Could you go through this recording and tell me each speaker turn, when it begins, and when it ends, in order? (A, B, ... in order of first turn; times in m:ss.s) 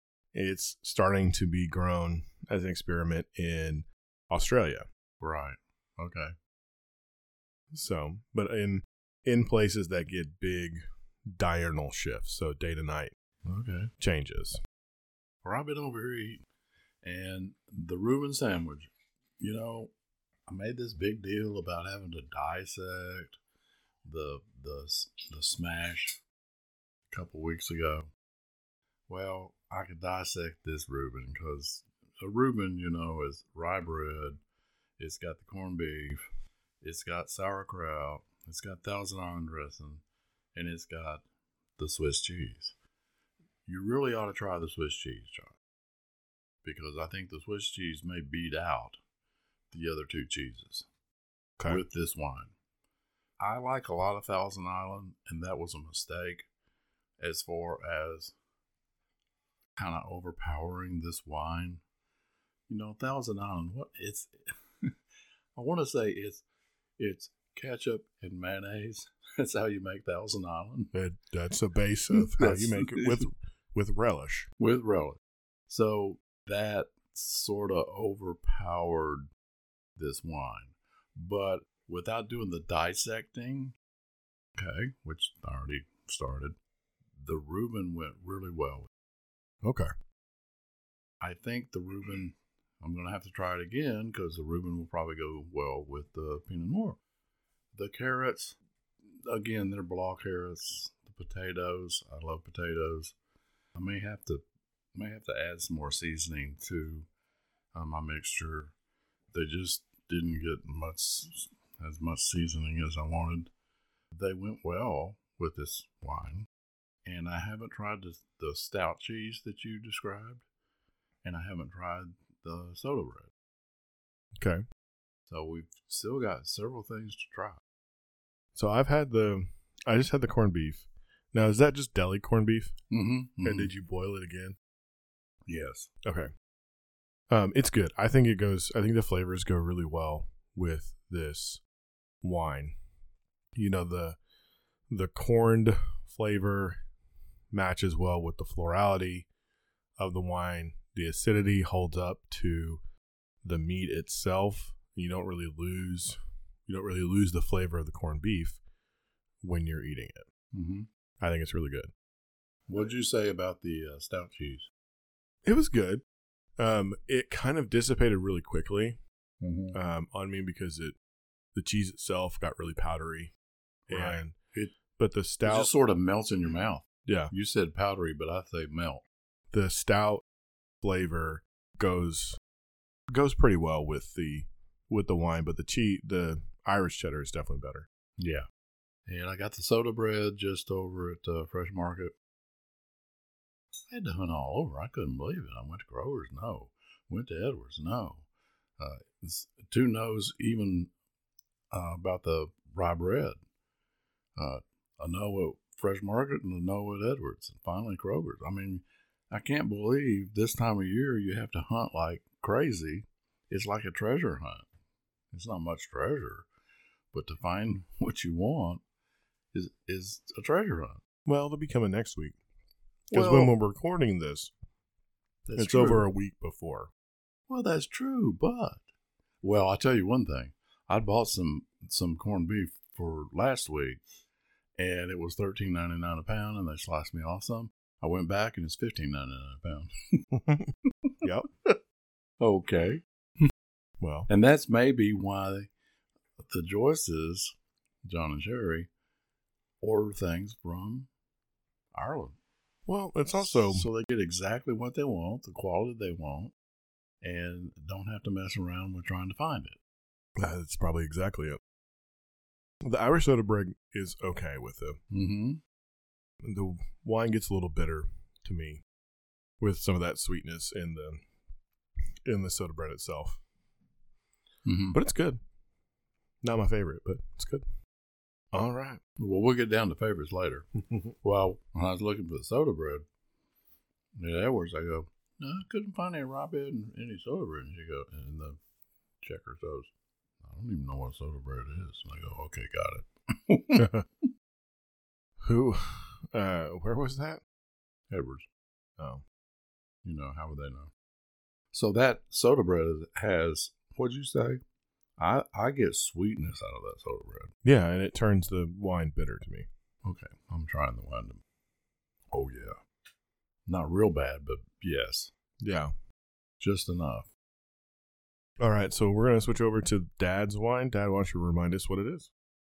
0:00.3-0:04.8 A
0:05.2-0:06.4 B
0:07.7-0:13.1 A
0:13.5-0:13.9 B
0:14.0-0:14.6 A
0:15.4-0:16.4 B
0:17.0-0:19.9 B
0:20.5-0:23.4 B
0:24.0-0:26.2 B
0:27.1-0:28.1 B
0:29.1-0:34.4 B
0:35.0-0:36.2 B
0:36.8-0:40.0 B
0:40.6-0:41.2 B
0:41.8-0:42.7 B
0:43.7-0:45.6 B
0:46.6-0:49.0 B
0:49.7-0:50.9 B
0:51.7-0:52.6 B
0:53.4-0:56.5 B
0:57.2-0:58.3 B
0:59.8-1:01.8 B
1:02.7-1:04.9 B
1:05.6-1:06.4 B
1:07.0-1:10.9 B
1:10.9-1:14.5 A
1:12.1-1:13.3 B
1:14.6-1:19.3 B
1:20.0-1:23.8 B
1:24.6-1:26.6 B
1:27.2-1:28.9 B
1:29.6-1:29.9 A
1:31.2-1:37.0 B
1:37.7-1:38.6 B
1:39.2-1:43.2 B
1:43.8-1:44.4 B
1:45.0-1:47.1 B
1:47.7-1:48.7 B
1:49.3-1:53.5 B
1:54.1-1:56.5 B
1:57.0-2:00.4 B
2:01.2-2:03.3 B
2:04.4-2:04.6 A
2:05.3-2:07.6 B
2:08.6-2:12.7 A
2:12.9-2:13.7 B
2:13.4-2:14.6 A
2:15.5-2:15.9 B
2:16.0-2:16.3 A
2:17.3-2:21.6 A
2:22.2-2:22.8 A
2:23.5-2:24.2 A
2:24.9-2:26.8 A
2:27.5-2:29.3 A
2:30.0-2:32.8 A
2:33.4-2:38.6 A
2:39.4-2:40.3 A
2:40.5-2:40.9 B
2:41.2-2:41.9 A
2:42.7-2:44.7 B
2:45.4-2:46.0 A
2:46.6-2:49.0 A
2:49.4-2:49.8 B
2:49.7-2:51.0 A
2:51.6-2:53.3 A
2:53.9-2:54.8 B
2:53.9-2:54.4 A
2:55.0-2:55.7 A
2:55.4-2:59.0 B
2:57.1-2:57.3 A
2:59.5-3:00.2 A
3:00.8-3:02.4 A
3:03.1-3:07.9 A
3:08.2-3:08.4 B
3:09.1-3:12.2 B
3:13.9-3:18.3 B
3:18.8-3:20.9 B
3:21.7-3:23.4 B
3:24.4-3:34.6 B
3:35.3-3:36.5 B
3:37.1-3:38.8 B
3:39.5-3:41.0 B
3:41.3-3:42.4 A
3:43.1-3:43.5 B
3:43.1-3:44.5 A
3:45.5-3:46.1 B
3:45.6-3:46.9 A
3:47.5-3:48.9 B
3:49.4-3:54.0 B
3:54.8-4:00.3 B
4:00.3-4:00.7 A
4:01.2-4:01.5 A
4:02.4-4:03.5 B
4:04.0-4:04.3 A
4:04.3-4:05.7 B
4:06.4-4:08.9 B
4:09.8-4:11.1 B
4:11.9-4:12.4 B
4:12.9-4:13.9 A
4:13.3-4:16.5 B
4:17.2-4:19.8 B
4:20.4-4:21.6 A
4:22.8-4:25.0 A
4:25.1-4:25.6 B
4:26.4-4:28.8 A
4:29.6-4:31.2 A
4:32.2-4:33.4 A
4:34.7-4:35.0 B
4:34.9-4:35.4 A
4:36.4-4:37.6 A
4:38.5-4:39.0 A
4:39.2-4:40.7 B
4:41.2-4:43.0 B
4:44.2-4:48.6 B
4:49.2-4:49.9 B
4:50.4-4:53.9 B
4:53.8-4:54.0 A
4:55.4-4:57.4 A
4:58.1-4:58.5 B
4:59.0-4:59.2 A
5:00.0-5:00.9 B
5:01.7-5:04.6 B
5:05.2-5:07.5 B
5:07.6-5:09.7 A
5:10.0-5:11.4 B
5:12.3-5:12.8 B
5:13.7-5:15.3 B
5:15.6-5:15.9 A
5:16.6-5:17.3 B
5:18.6-5:22.3 A